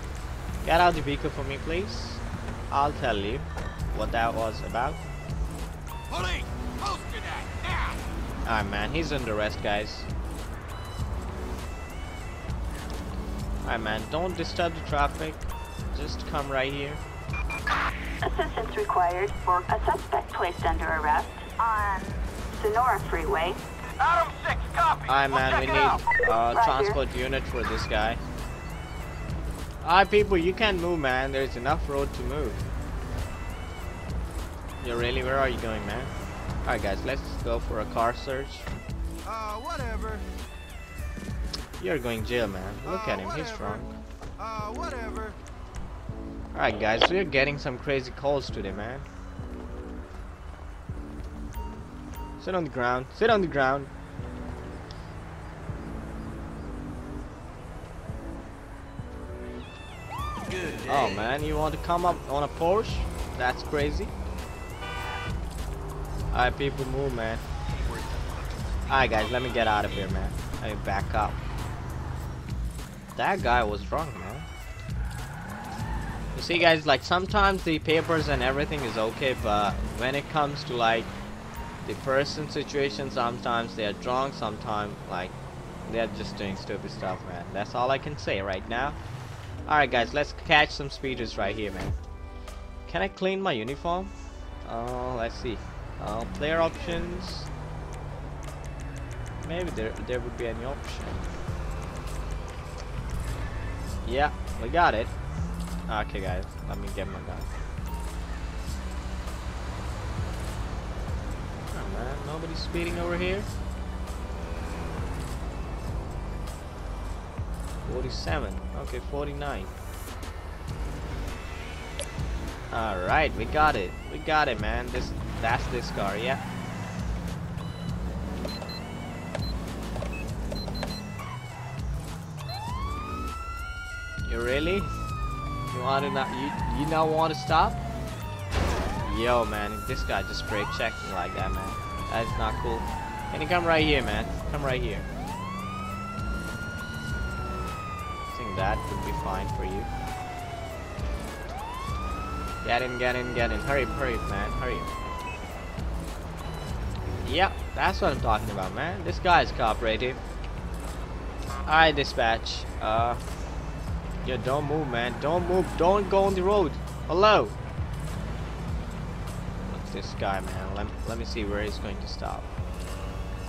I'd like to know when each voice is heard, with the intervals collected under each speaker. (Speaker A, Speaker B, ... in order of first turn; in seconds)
Speaker A: 0.6-5.0, 8.4-10.1, 13.6-17.0, 25.1-28.2, 29.8-32.6, 34.8-36.1, 36.6-38.7, 41.8-43.9, 46.5-49.0, 52.4-53.9, 60.9-64.1, 66.3-67.4, 68.9-71.4, 73.1-74.5, 76.3-81.1, 81.8-85.3, 85.8-89.0, 89.7-92.0, 92.9-94.1, 94.6-97.5, 99.4-101.3, 104.0-105.1, 105.9-107.5, 111.7-113.5, 117.8-119.7, 122.7-126.4, 134.2-134.9, 135.7-137.8, 139.0-145.1, 148.3-149.9, 152.6-154.9, 157.2-160.2, 161.7-163.2, 164.2-167.5, 169.7-172.5
Speaker B: 6.1-8.0, 24.0-25.1, 39.2-40.2, 42.8-43.9, 44.4-45.4, 60.5-61.3, 67.8-69.9
Speaker C: 18.2-23.6, 25.7-27.0